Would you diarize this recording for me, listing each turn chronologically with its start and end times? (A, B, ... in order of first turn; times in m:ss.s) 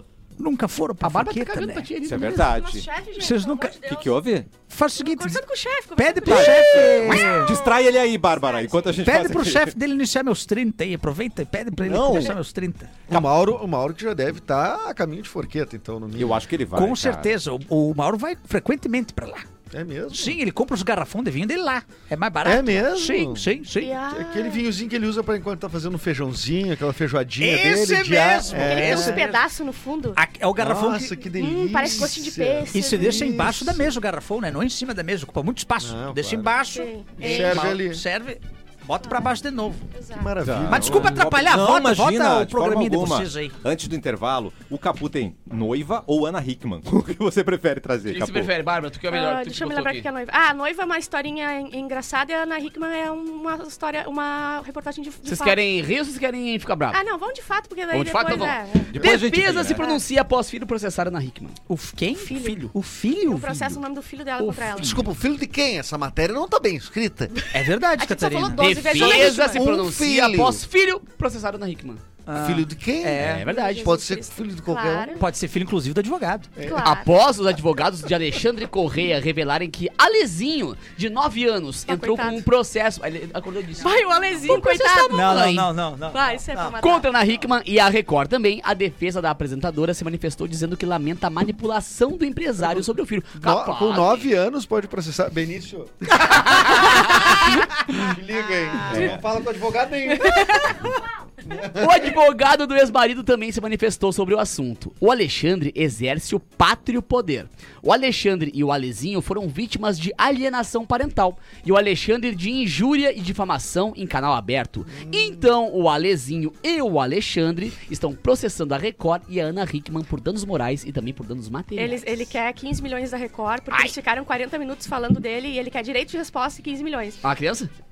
0:00.4-0:01.9 A
0:01.0-0:02.4 B
0:02.0-0:02.9 C
0:02.1-0:04.2 D
0:03.2-0:03.8 A
0:03.8-0:04.5 C
0:04.7-0:05.4 A
0:05.0-0:09.0 D
0:06.0-0:07.6 A
0:06.2-0:09.8 C
0:09.0-0:12.9 A
0:11.9-0:12.4 C
0:13.1-0:16.4 E
0:16.2-0:17.3 C
0:16.7-0:19.5 A
0:19.7-0:20.4 E
0:20.1-0:24.0 A
0:22.4-0:23.5 E
0:23.8-0:24.7 D
0:24.1-0:29.3 E
0:27.4-0:29.4 A
0:28.5-0:30.2 D
0:30.2-0:31.2 A
0:30.6-0:33.9 E
0:31.3-0:33.3 D
0:32.7-0:39.8 A
0:35.8-0:36.5 E
0:36.7-0:37.7 D
0:37.2-0:38.0 E
0:39.9-0:40.4 D
0:40.2-0:41.2 E
0:40.4-0:48.5 C
0:40.6-0:43.6 A
0:48.1-0:50.1 B
0:49.1-0:55.6 D
0:55.2-0:57.0 B
0:56.9-0:59.1 D
0:57.9-1:01.6 B
0:58.9-0:59.8 C
0:59.8-1:00.0 D
1:01.7-1:03.8 A
1:02.2-1:02.7 D
1:03.3-1:05.1 D
1:04.4-1:05.1 B
1:04.8-1:07.3 E
1:07.5-1:08.7 A
1:08.0-1:09.6 D
1:08.6-1:12.0 B
1:08.9-1:10.6 E
1:12.3-1:13.4 A
1:12.3-1:15.2 E
1:13.2-1:14.0 B
1:13.4-1:15.2 D
1:15.2-1:16.5 A
1:16.6-1:16.9 E
1:16.6-1:17.1 D
1:16.8-1:25.7 B
1:21.9-1:22.4 D
1:23.8-1:27.1 D
1:24.5-1:26.8 A
1:26.8-1:34.3 B
1:33.4-1:40.8 E
1:36.2-1:37.7 B
1:38.9-1:39.2 C
1:40.2-1:40.7 D
1:41.4-1:42.1 E
1:41.7-2:02.3 B
1:54.9-1:55.4 E
2:01.8-2:07.2 D
2:07.2-2:07.7 B